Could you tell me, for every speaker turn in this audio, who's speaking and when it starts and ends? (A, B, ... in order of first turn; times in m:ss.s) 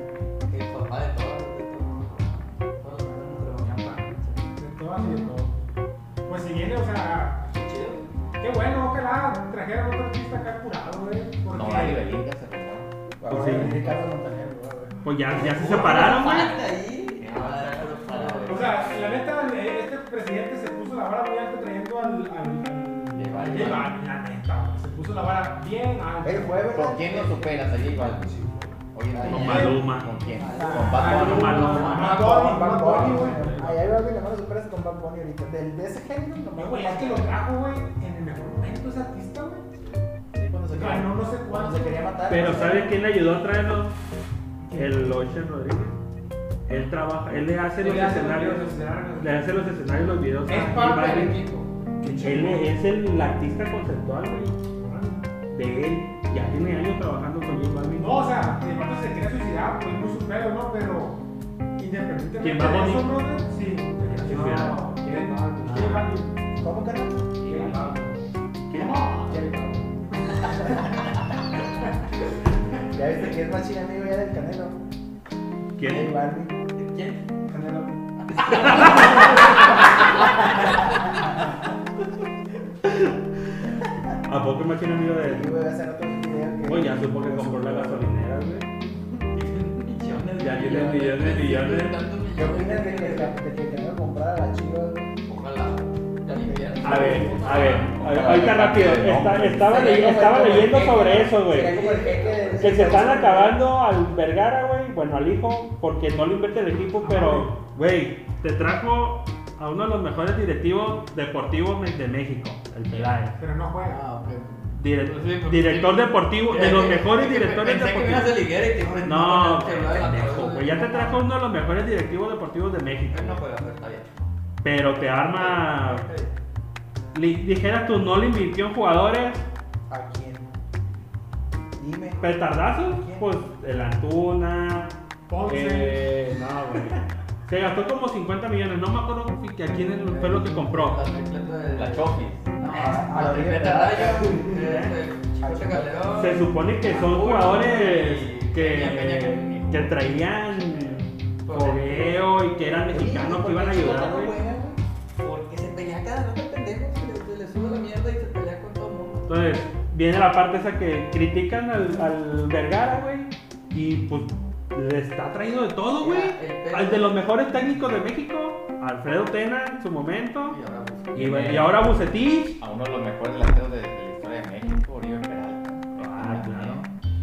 0:00.5-0:04.5 A
0:04.6-0:05.5 B
0:06.3-0:07.5 B
0:07.5-0:08.0 A
0:08.4-0:12.2 B
0:11.5-0:12.9 C
0:13.2-0:15.7 D
0:13.3-0:13.8 E
0:15.0-0:16.6 E
0:15.4-0:18.8 A
0:15.4-0:19.0 C
0:18.4-0:26.7 B
0:23.2-0:23.9 C
0:26.2-0:27.6 D
0:26.7-0:32.1 C
0:28.0-0:29.8 B
0:29.1-0:31.5 A
0:29.3-0:30.1 E
0:30.3-0:37.3 D
0:30.6-0:33.8 B
0:31.0-0:32.2 E
0:32.0-0:32.8 F
0:36.6-0:39.7 B
0:40.3-0:43.0 D
0:40.7-0:42.1 B
0:42.3-0:43.9 E
0:44.6-0:45.1 B
0:44.7-0:46.0 E
0:46.7-0:51.4 E
0:47.8-0:49.4 F
0:50.5-0:51.7 F
0:52.0-0:52.7 B
0:52.0-0:54.6 E
0:54.7-0:55.3 B
0:55.5-0:58.2 E
0:58.0-1:01.2 B
1:01.8-1:06.3 B
1:02.4-1:03.2 E
1:04.0-1:04.9 E
1:04.2-1:06.1 F
1:05.6-1:06.1 E
1:06.6-1:07.6 D
1:07.4-1:08.2 F
1:08.7-1:09.1 E
1:08.8-1:09.4 B
1:09.3-1:09.9 F
1:12.9-1:14.8 D
1:15.8-1:16.1 E
1:15.8-1:16.6 D
1:16.7-1:17.2 A
1:17.5-1:18.0 F
1:18.3-1:20.7 A
1:18.5-1:19.4 E
1:22.8-1:23.2 E
1:24.3-1:25.5 E
1:25.1-1:28.1 D
1:26.6-1:28.7 E
1:29.3-1:33.4 A
1:30.4-1:32.0 E
1:32.3-1:35.1 D
1:35.3-1:38.4 A
1:36.3-1:37.6 D
1:36.8-1:41.8 E
1:37.9-1:39.9 C
1:39.6-1:43.7 D
1:41.6-1:43.1 A
1:42.6-1:53.4 E
1:47.0-1:47.5 B
1:53.4-1:54.0 B
1:53.8-2:01.2 A
1:54.7-1:58.4 E
1:59.0-2:03.4 E
2:03.1-2:04.2 A
2:04.6-2:06.1 E
2:05.0-2:06.3 A
2:07.1-2:09.4 E
2:09.9-2:10.5 D
2:11.8-2:13.3 D
2:12.2-2:14.9 E
2:15.3-2:16.1 B
2:15.5-2:21.0 E
2:20.1-2:30.0 A
2:21.7-2:22.5 C
2:22.6-2:24.6 D
2:24.5-2:25.0 E
2:25.4-2:26.1 D
2:26.1-2:34.4 E
2:30.5-2:32.3 A
2:32.8-2:34.8 D
2:35.2-2:39.3 A
2:39.3-2:50.6 E
2:46.0-2:47.3 A
2:50.5-2:51.5 A
2:51.1-2:52.6 E
2:52.6-2:56.9 C
2:56.0-2:56.9 E